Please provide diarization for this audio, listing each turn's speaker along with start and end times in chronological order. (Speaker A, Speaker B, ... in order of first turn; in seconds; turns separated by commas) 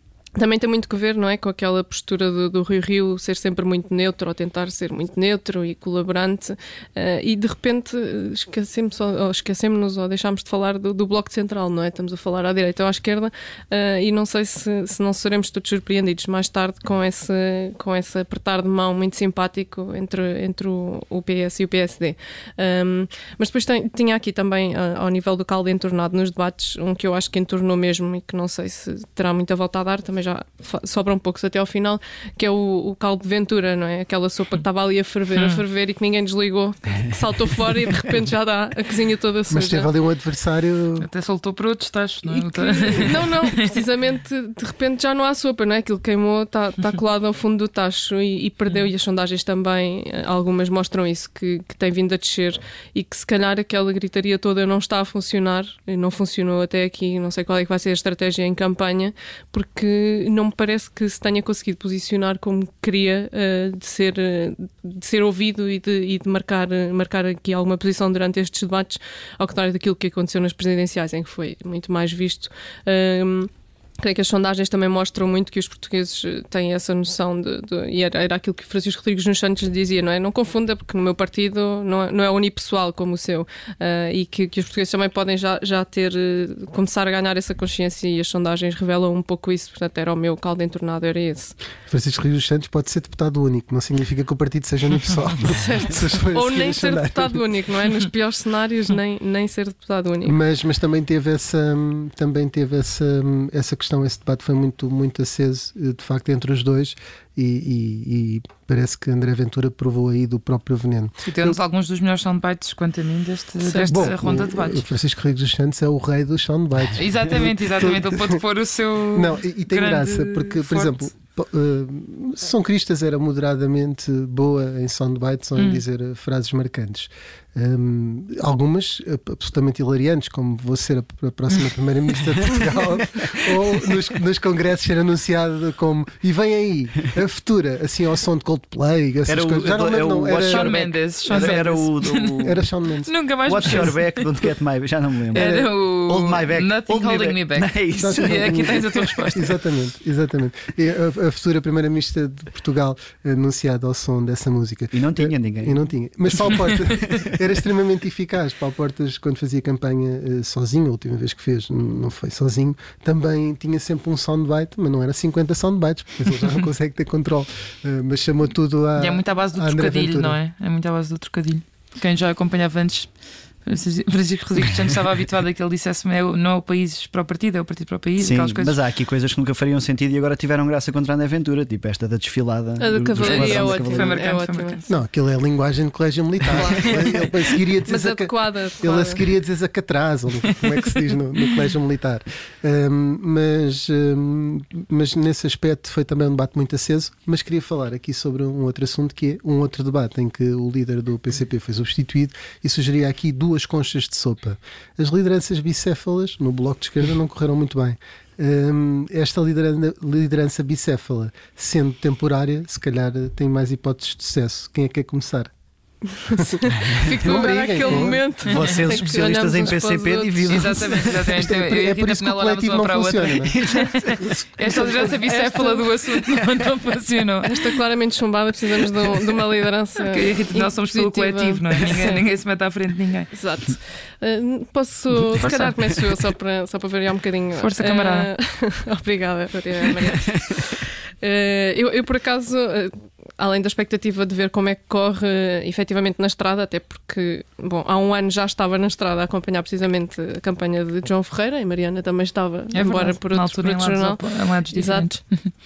Speaker A: 0.4-39.9, Speaker B: 35.4-35.6, Speaker C: 39.5-41.1, Speaker B: 41.0-43.7, Speaker A: 42.3-91.6, Speaker C: 91.9-97.5, Speaker A: 95.6-100.4, Speaker C: 100.2-111.6, Speaker B: 111.2-114.8, Speaker A: 113.6-114.1, Speaker C: 113.9-118.4, Speaker B: 117.0-121.1, Speaker C: 119.1-140.8, Speaker B: 125.6-125.8, Speaker D: 139.3-142.6, Speaker B: 140.4-142.5, Speaker C: 141.3-141.6, Speaker C: 142.4-143.1, Speaker B: 143.1-144.3, Speaker D: 143.5-149.1, Speaker C: 145.3-145.7, Speaker B: 145.3-149.4, Speaker C: 147.9-170.4, Speaker D: 154.9-155.8, Speaker D: 156.3-157.4, Speaker B: 169.0-178.8, Speaker D: 178.2-184.2, Speaker A: 182.8-184.9, Speaker B: 183.2-184.8, Speaker C: 184.9-215.5, Speaker A: 186.5-187.1, Speaker D: 186.8-187.3, Speaker A: 187.9-189.3, Speaker C: 216.3-216.6, Speaker A: 216.4-220.9, Speaker C: 217.2-218.3, Speaker D: 217.8-221.4, Speaker B: 220.5-227.8, Speaker C: 221.4-223.5, Speaker D: 223.6-224.2, Speaker A: 224.6-226.4, Speaker A: 227.4-232.2, Speaker B: 230.1-233.3, Speaker A: 233.3-255.2, Speaker B: 235.4-235.8, Speaker B: 237.6-238.3, Speaker B: 252.7-255.5